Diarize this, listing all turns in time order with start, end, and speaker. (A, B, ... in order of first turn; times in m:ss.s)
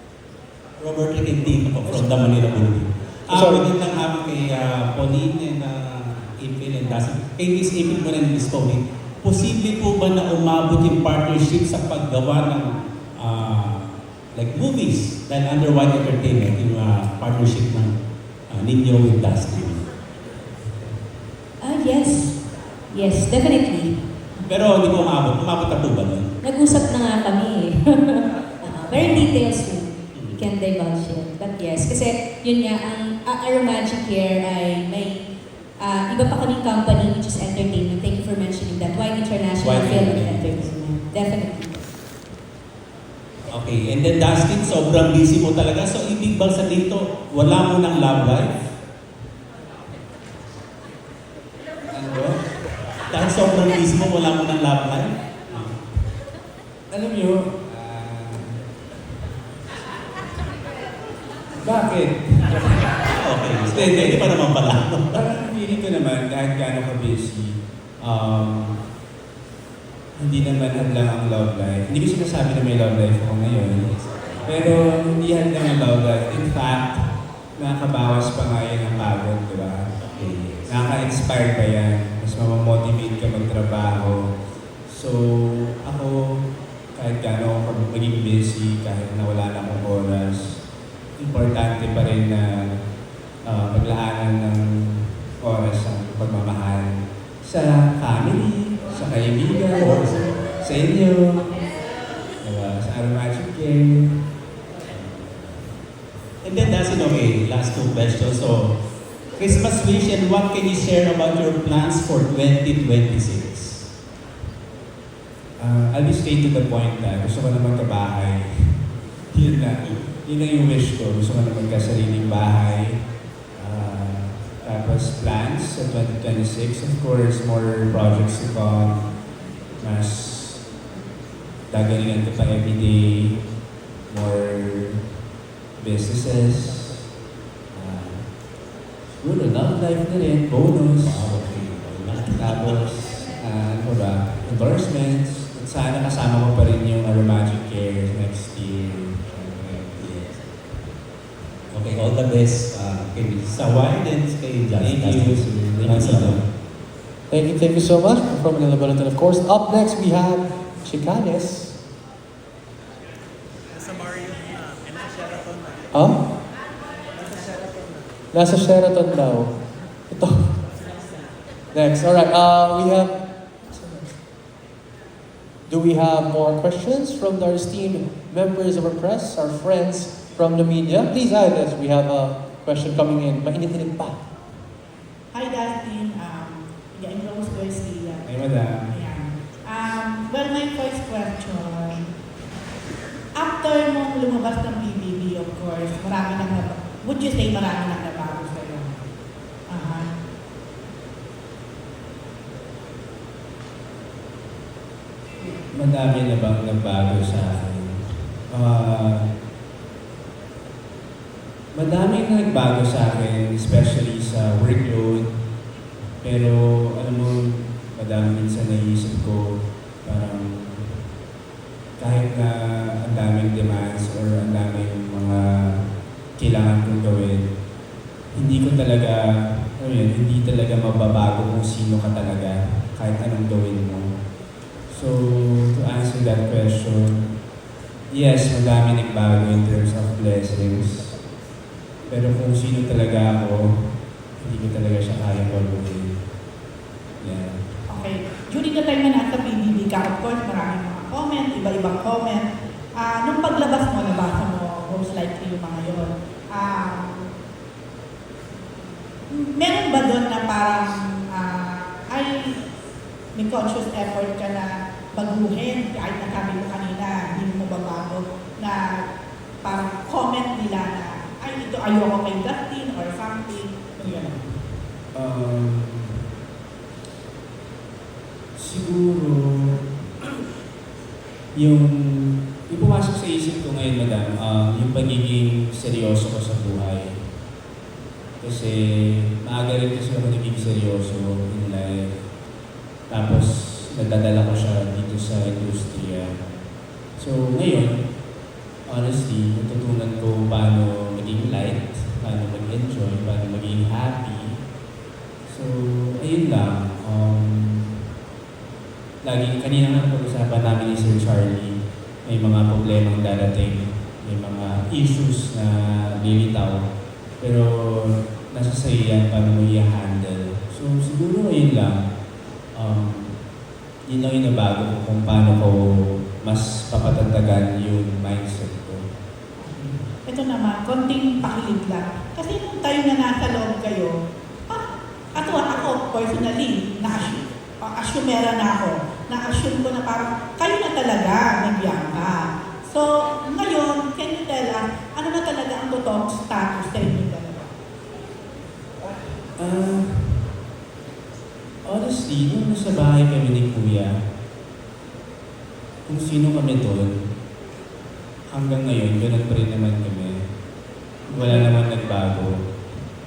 0:00.8-0:18.0 A
0:03.3-0:03.6 B
0:18.5-0:19.9 A
0:21.6-0:24.0 C
0:24.4-0:27.0 A
0:26.4-0:35.3 C
0:28.9-0:29.4 A
0:30.1-0:30.4 A
0:35.8-0:41.8 C
0:39.6-0:40.6 A
0:39.7-0:40.7 D
0:43.5-0:48.5 A
0:51.9-0:52.4 D
0:53.1-0:55.8 A
0:56.9-0:58.6 D
1:01.6-1:03.1 D
1:03.0-1:05.2 A
1:03.7-1:04.3 D
1:05.1-1:08.8 D
1:10.2-1:13.8 D
1:13.9-1:14.8 A
1:14.4-1:17.0 D
1:17.6-1:19.8 D
1:20.0-1:20.7 A
1:20.7-1:24.2 D
1:24.9-1:26.2 D
1:27.0-1:30.6 D
1:31.2-1:32.7 D
1:33.4-1:41.6 D
1:39.7-1:40.4 A
1:42.4-1:44.2 D
1:44.8-1:45.6 A
1:46.4-1:48.8 A
1:49.4-1:53.9 A
1:55.6-2:03.0 D
2:03.6-2:09.0 D
2:09.8-2:10.6 D
2:11.7-2:13.3 D
2:14.1-2:15.0 D
2:15.8-2:17.0 D
2:17.7-2:18.3 D
2:19.2-2:21.3 D
2:21.0-2:22.8 A
2:22.3-2:29.9 D
2:30.0-2:30.4 A
2:31.7-2:36.4 A
2:34.8-2:36.4 D
2:37.3-2:41.8 B
2:45.9-2:46.2 B
2:48.3-2:49.6 B
2:50.1-2:50.6 B
2:51.7-2:53.2 B
2:53.7-2:54.1 B
2:55.7-3:04.2 B
3:05.3-3:08.3 E
3:08.2-3:08.9 D
3:08.9-3:12.1 E
3:13.4-3:19.0 E
3:19.7-3:20.1 E
3:25.4-3:28.0 D
3:28.5-3:29.3 D
3:31.8-3:35.3 D
3:36.2-3:41.0 D
3:42.0-3:45.8 D
3:46.4-3:47.5 D
3:48.3-3:54.1 D
3:54.9-3:57.2 D
3:58.1-4:01.2 D
4:02.1-4:03.7 D
4:04.4-4:06.2 D
4:07.2-4:07.6 D
4:07.9-4:17.3 E
4:19.3-4:22.6 E
4:23.4-4:28.8 E
4:29.6-4:34.4 E
4:34.0-4:34.4 D
4:35.1-4:36.2 D
4:38.6-4:39.8 D
4:41.6-4:47.1 D
4:48.4-4:52.1 D
4:53.1-4:56.4 D
4:57.2-4:58.0 D
4:58.9-5:04.6 D
5:05.5-5:08.0 D
5:09.2-5:16.8 D
5:17.4-5:22.1 D
5:22.8-5:23.4 D
5:24.1-5:29.1 D
5:29.6-5:34.1 E
5:34.7-5:47.7 E
5:49.0-5:50.6 D
5:51.8-5:54.1 D
5:56.1-5:57.2 D
5:58.5-6:00.4 D
6:01.3-6:02.6 D
6:01.4-6:01.7 E